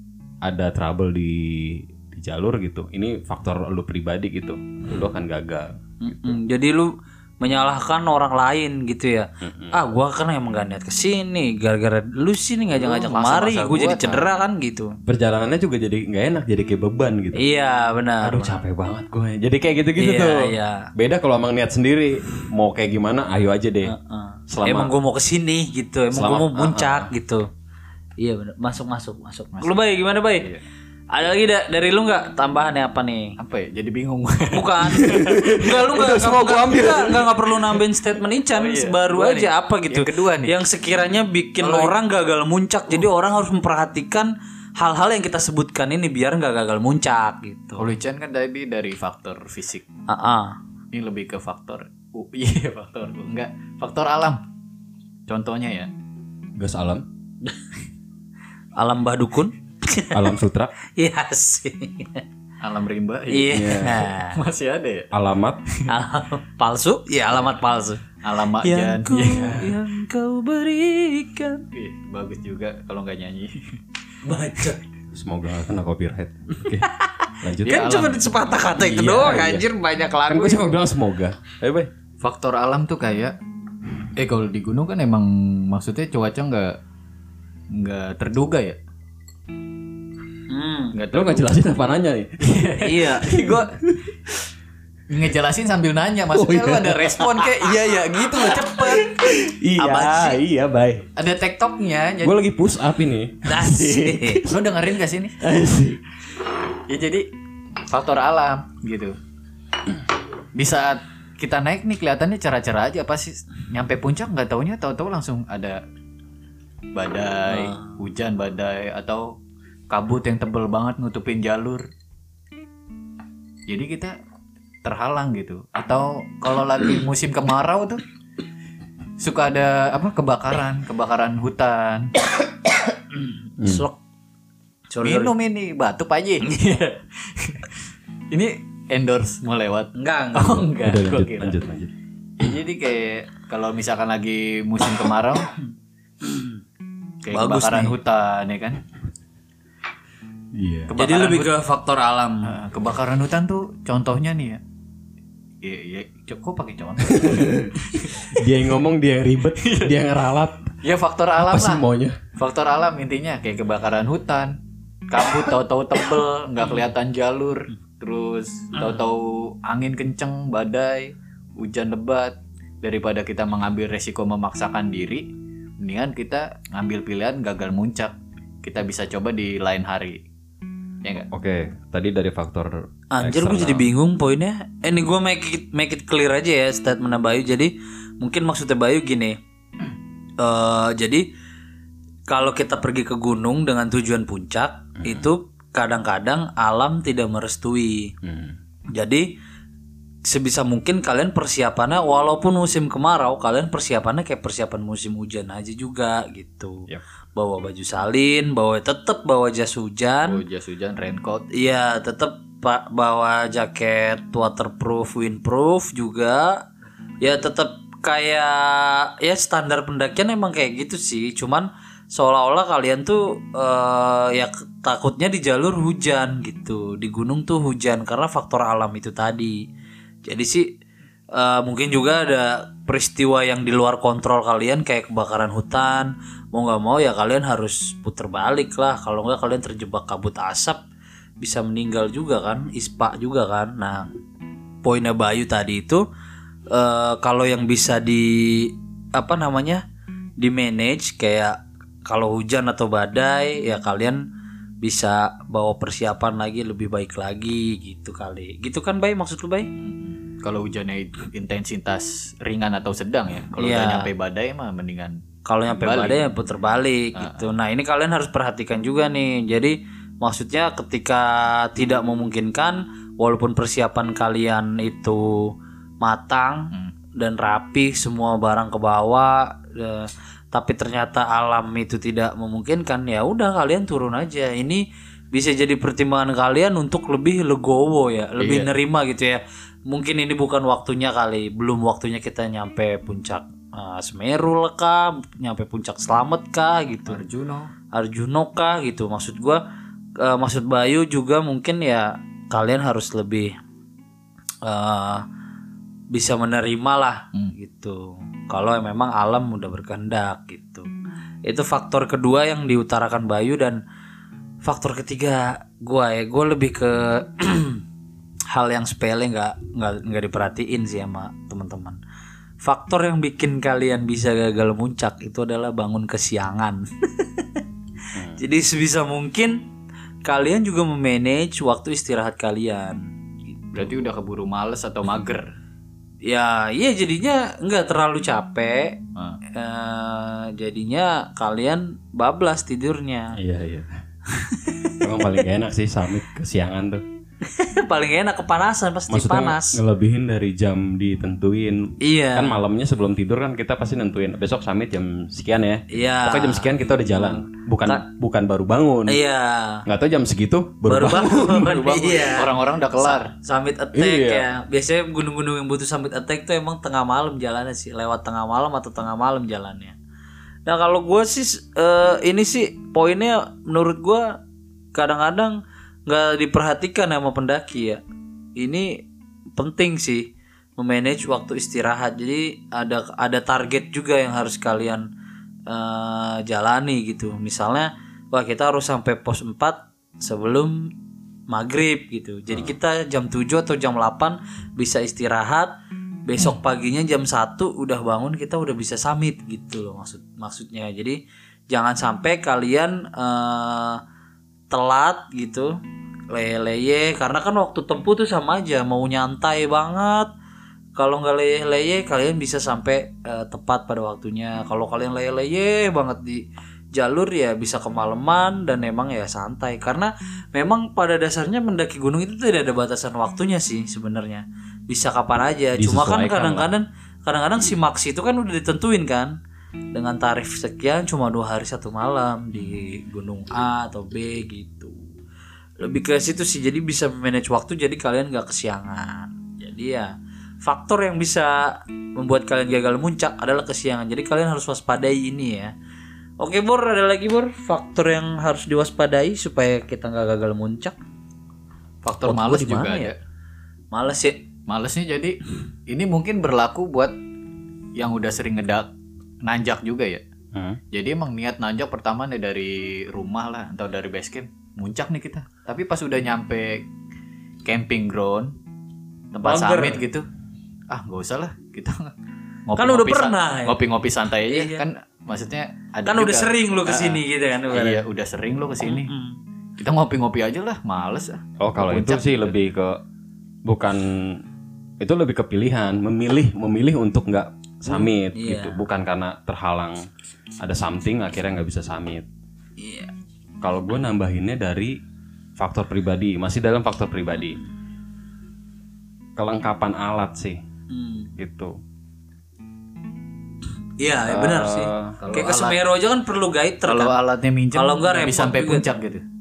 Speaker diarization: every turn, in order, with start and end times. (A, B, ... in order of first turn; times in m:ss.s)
0:00.4-0:06.2 A
0:06.0-0:15.0 B
0:09.4-0:09.8 A
0:12.7-0:14.3 C
0:15.1-0:17.4 A
0:17.4-0:18.6 B
0:18.2-0:23.9 A
0:20.0-0:20.9 B
0:23.8-0:27.5 B
0:24.5-0:24.9 A
0:26.1-0:27.1 A
0:28.2-0:30.5 B
0:31.1-0:33.4 B
0:33.4-0:37.2 C
0:34.5-0:47.9 B
0:35.0-0:37.2 A
0:38.5-0:40.6 C
0:41.6-0:41.9 C
0:47.8-0:49.8 C
0:50.1-0:50.6 B
0:50.9-0:54.4 C
0:55.3-0:55.9 C
0:56.6-0:57.1 A
0:58.8-1:00.4 B
1:00.1-1:00.7 A
1:01.0-1:02.2 B
1:02.6-1:05.1 C
1:03.3-1:04.4 B
1:03.5-1:04.1 A
1:05.1-1:05.6 A
1:05.9-1:08.0 B
1:08.2-1:09.8 C
1:08.6-1:11.6 B
1:11.7-1:13.8 C
1:14.2-1:14.8 B
1:15.1-1:16.9 A
1:16.8-1:20.7 B
1:17.4-1:18.2 A
1:17.7-1:18.7 C
1:18.8-1:19.7 A
1:20.3-1:21.9 A
1:22.2-1:23.4 C
1:24.2-1:26.8 C
1:27.7-1:28.8 C
1:30.5-1:31.0 B
1:30.9-1:31.7 C
1:31.1-1:32.6 A
1:32.4-1:33.8 C
1:32.8-1:33.5 B
1:35.1-1:39.2 C
1:36.3-1:37.7 A
1:39.0-1:41.1 A
1:39.8-1:40.4 B
1:41.2-1:42.4 C
1:42.2-1:44.6 A
1:43.5-1:44.4 B
1:44.5-1:45.4 C
1:45.4-1:46.0 A
1:46.9-1:47.3 C
1:47.9-1:49.2 C
1:50.6-1:55.8 C
1:57.0-1:59.3 C
1:57.5-1:57.9 B
1:59.9-2:01.8 C
2:03.7-2:04.2 C
2:04.8-2:08.0 C
2:09.2-2:12.1 C
2:13.1-2:14.0 B
2:13.6-2:13.9 A
2:14.9-2:15.3 B
2:15.0-2:17.7 C
2:16.5-2:16.8 B
2:18.3-2:21.6 C
2:20.0-2:20.7 B
2:20.8-2:22.5 A
2:22.4-2:25.5 C
2:26.2-2:26.6 B
2:27.2-2:28.8 C
2:27.3-2:28.0 B
2:30.6-2:30.9 A
2:30.9-2:31.6 C
2:31.0-2:32.6 B
2:32.4-2:34.6 C
2:35.6-2:38.5 C
2:37.1-2:40.7 A
2:39.6-2:40.0 C
2:40.8-2:41.8 C
2:41.4-2:42.2 A
2:42.4-2:44.6 C
2:45.1-2:55.3 C
2:55.8-3:00.2 C
3:01.3-3:03.9 A
3:03.1-3:09.4 B
3:10.4-3:11.3 B
3:12.3-3:18.1 B
3:15.0-3:15.3 A
3:18.2-3:18.6 A
3:18.9-3:19.3 B
3:20.2-3:30.4 B
3:30.3-3:31.5 C
3:31.5-3:36.6 B
3:37.2-3:49.6 B
3:50.3-3:50.7 B
3:51.3-4:00.8 B
4:01.4-4:04.1 B
4:04.8-4:06.0 B
4:06.7-4:09.8 B
4:10.4-4:14.3 B
4:14.8-4:19.7 B
4:19.8-4:26.3 C
4:23.6-4:24.1 B
4:25.4-4:57.2 B
4:27.2-4:27.5 C
4:48.4-4:48.7 C
4:57.1-4:57.7 C
4:57.9-4:59.6 B
5:00.2-5:03.5 B
5:04.6-5:05.2 B
5:06.1-5:10.9 B
5:11.4-5:13.8 B
5:14.6-5:17.8 B
5:18.5-5:22.0 B
5:22.6-5:27.6 B
5:28.2-5:28.4 A
5:28.4-5:29.6 B
5:30.2-5:33.0 B
5:33.8-5:35.5 C
5:36.2-5:39.0 B
5:39.5-5:43.4 B
5:43.4-5:44.0 A
5:44.3-5:45.0 B
5:45.0-5:47.0 A
5:47.4-5:49.8 B
5:49.1-5:59.2 A
5:52.0-5:52.6 B
5:55.9-5:58.0 B
5:59.1-5:59.8 B
5:59.9-6:01.7 A
6:00.9-6:10.0 B
6:01.4-6:03.3 C
6:03.9-6:04.5 A
6:10.7-6:14.4 B
6:14.9-6:18.0 B
6:18.6-6:19.0 B
6:19.6-6:25.1 B
6:25.7-6:30.9 B
6:31.5-6:35.7 B
6:36.3-6:44.0 B
6:44.7-6:45.8 B
6:46.3-6:50.3 B
6:51.0-7:09.4 B
7:05.8-7:06.7 A
7:09.9-7:15.0 B
7:15.8-7:25.7 B
7:26.4-7:31.0 B
7:32.0-7:33.2 C
7:32.2-7:33.1 B
7:33.9-7:34.4 B
7:34.7-7:37.1 C
7:38.0-7:38.9 C
7:39.4-7:40.2 C
7:40.5-7:40.8 A
7:40.9-7:46.9 C
7:47.6-7:48.5 C
7:49.3-7:50.3 C
7:49.4-7:50.0 B
7:50.9-7:52.1 C
7:52.7-7:59.1 C
7:52.8-7:53.8 B
7:54.5-7:54.8 B
7:56.0-7:58.0 B
7:58.8-7:59.4 B
7:59.8-8:02.6 C
8:01.6-8:03.0 A
8:03.7-8:04.4 A
8:05.0-8:10.0 A
8:07.9-8:08.8 B
8:10.6-8:12.3 A
8:12.8-8:13.1 B
8:13.6-8:15.0 A
8:15.6-8:17.6 A
8:19.4-8:20.6 A
8:20.9-8:21.3 B
8:21.4-8:21.7 A
8:24.0-8:27.2 B
8:24.3-8:25.2 A
8:25.2-8:25.8 C
8:26.9-8:29.2 C
8:27.7-8:28.9 B